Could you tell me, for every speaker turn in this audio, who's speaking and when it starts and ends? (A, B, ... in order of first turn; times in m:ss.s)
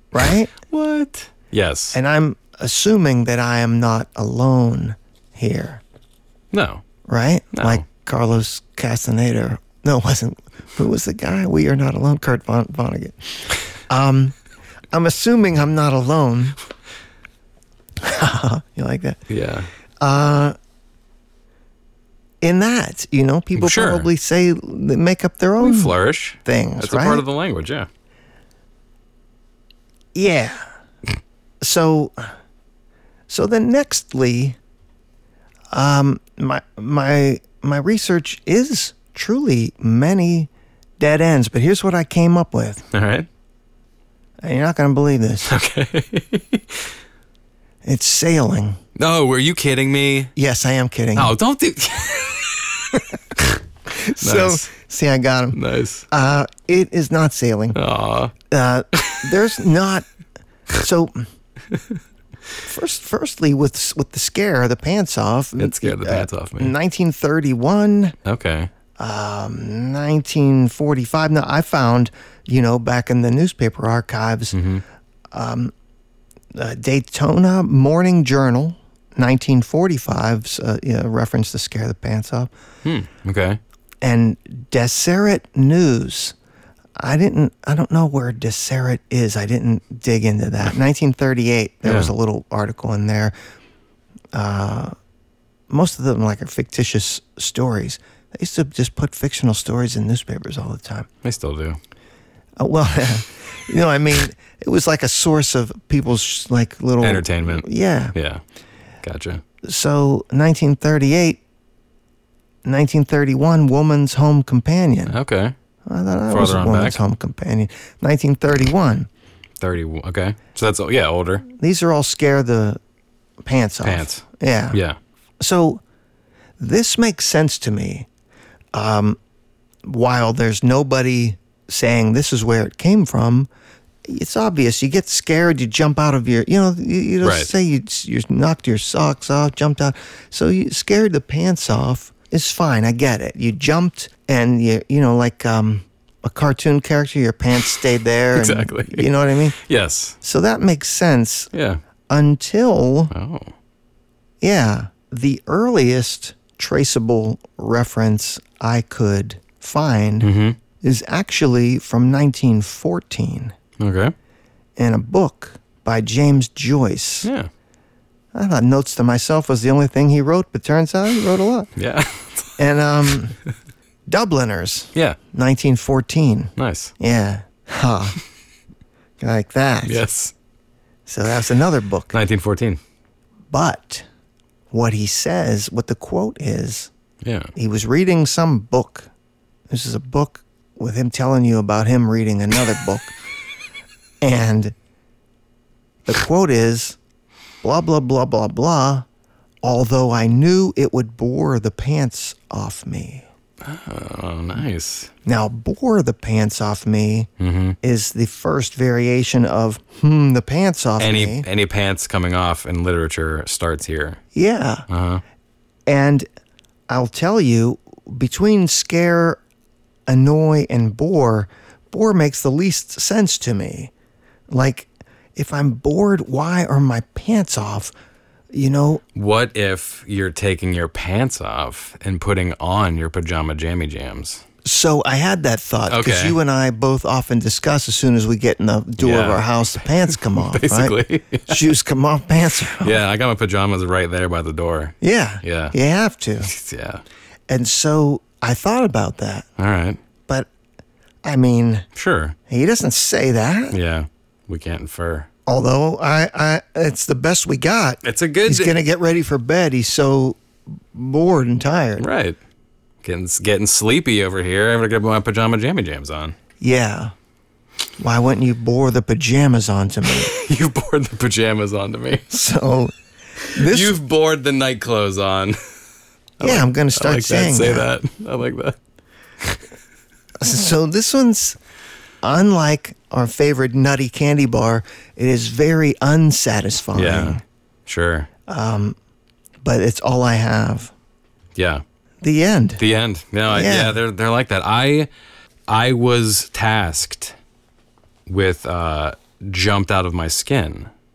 0:00.1-0:00.5 A
0:00.2-0:02.0 B
0:01.9-0:05.8 A
0:06.5-0:06.8 B
0:07.1-0:14.4 A
0:07.5-0:07.8 B
0:14.9-0:16.6 A
0:18.0-0:19.2 A
0:19.3-0:19.7 B
0:20.0-0:20.6 A
0:22.4-0:27.2 A
0:23.6-0:24.1 B
0:25.6-0:27.9 B
0:30.1-0:30.6 A
0:31.6-0:32.3 A
0:33.3-0:34.6 A
0:35.7-0:42.8 A
0:42.9-0:43.3 B
0:44.4-0:45.5 A
0:45.5-0:46.9 B
0:47.8-0:48.8 A
0:49.0-0:50.3 B
0:50.4-0:51.4 A
0:51.2-0:53.6 B
0:53.9-0:55.6 A
0:54.2-0:54.7 B
0:55.5-0:56.1 B
0:56.1-0:57.8 A
0:57.7-0:58.3 B
0:58.5-1:00.1 A
0:59.0-0:59.3 B
1:00.7-1:01.3 A
1:01.7-1:02.0 B
1:02.6-1:08.2 A
1:05.6-1:06.8 B
1:08.2-1:08.7 B
1:09.0-1:14.6 A
1:14.5-1:14.8 B
1:15.3-1:15.7 A
1:16.5-1:22.5 A
1:22.8-1:23.6 B
1:24.0-1:26.4 A
1:27.0-1:33.3 A
1:31.8-1:32.1 B
1:34.3-1:34.9 A
1:35.7-1:41.1 A
1:41.2-1:41.8 B
1:42.6-1:48.2 A
1:47.0-1:48.4 B
1:49.0-1:49.4 B
1:49.6-1:51.4 A
1:52.6-1:55.2 A
1:55.1-1:55.6 B
1:55.9-1:59.1 A
1:56.3-1:57.0 B
1:59.6-2:01.4 B
2:01.5-2:02.8 A
2:03.4-2:04.8 A
2:03.8-2:05.0 B
2:05.4-2:05.8 A
2:06.6-2:08.1 A
2:08.7-2:09.2 A
2:09.8-2:13.5 A
2:14.1-2:29.6 A
2:17.2-2:17.5 B
2:28.3-2:30.2 B
2:30.2-2:31.5 A
2:31.5-2:31.8 B
2:32.1-2:33.1 A
2:33.1-2:33.5 B
2:34.4-2:43.6 A
2:40.2-2:40.6 B
2:43.8-2:44.1 B
2:44.8-2:47.3 A
2:47.2-2:47.5 B
2:48.3-2:51.7 A
2:51.8-2:52.6 B
2:52.6-2:53.4 A
2:54.1-2:58.2 A
2:56.6-2:56.9 B
2:59.2-3:00.0 A
2:59.8-3:00.3 B
3:01.1-3:02.2 A
3:02.1-3:02.8 B
3:03.5-3:04.1 A
3:04.7-3:06.9 A
3:07.2-3:07.5 B
3:07.6-3:09.1 A
3:09.7-3:13.2 A
3:14.2-3:14.8 A
3:16.1-3:17.0 A
3:17.6-3:19.1 A
3:19.6-3:23.3 A
3:23.6-3:25.1 B
3:25.2-3:27.3 A
3:27.4-3:27.8 B
3:27.8-3:31.4 A
3:31.0-3:34.2 B
3:34.3-3:34.9 A
3:34.9-3:35.2 B
3:35.9-3:36.3 A
3:36.9-3:39.4 A
3:40.1-3:43.9 A
3:44.5-3:47.9 A
3:48.5-3:49.0 A
3:49.2-3:54.4 B
3:54.6-4:01.0 A
3:55.9-3:56.4 B
3:59.0-4:01.7 B
4:01.5-4:03.0 A
4:02.6-4:05.8 B
4:05.0-4:06.5 A
4:06.4-4:07.0 B
4:07.5-4:09.5 A
4:09.6-4:10.0 B
4:11.2-4:11.9 A
4:12.0-4:12.4 B
4:12.5-4:13.8 A
4:13.7-4:15.3 B
4:15.5-4:20.4 A
4:18.0-4:18.8 B
4:20.9-4:22.0 A
4:22.0-4:22.4 B
4:23.0-4:26.4 B
4:26.6-4:27.1 A
4:28.0-4:30.4 A
4:30.1-4:32.3 B
4:32.3-4:32.9 A
4:33.5-4:34.0 A
4:33.5-4:35.6 B
4:36.4-4:38.8 B
4:36.4-4:37.9 A
4:40.4-4:41.6 A
4:42.2-4:47.4 A
4:47.0-4:48.3 B
4:48.5-4:49.0 A
4:49.6-4:50.9 A
4:51.6-4:51.8 B
4:52.2-4:52.8 A
4:52.8-4:55.1 B
4:53.5-4:54.0 A
4:55.7-4:57.4 B
4:58.3-5:00.9 B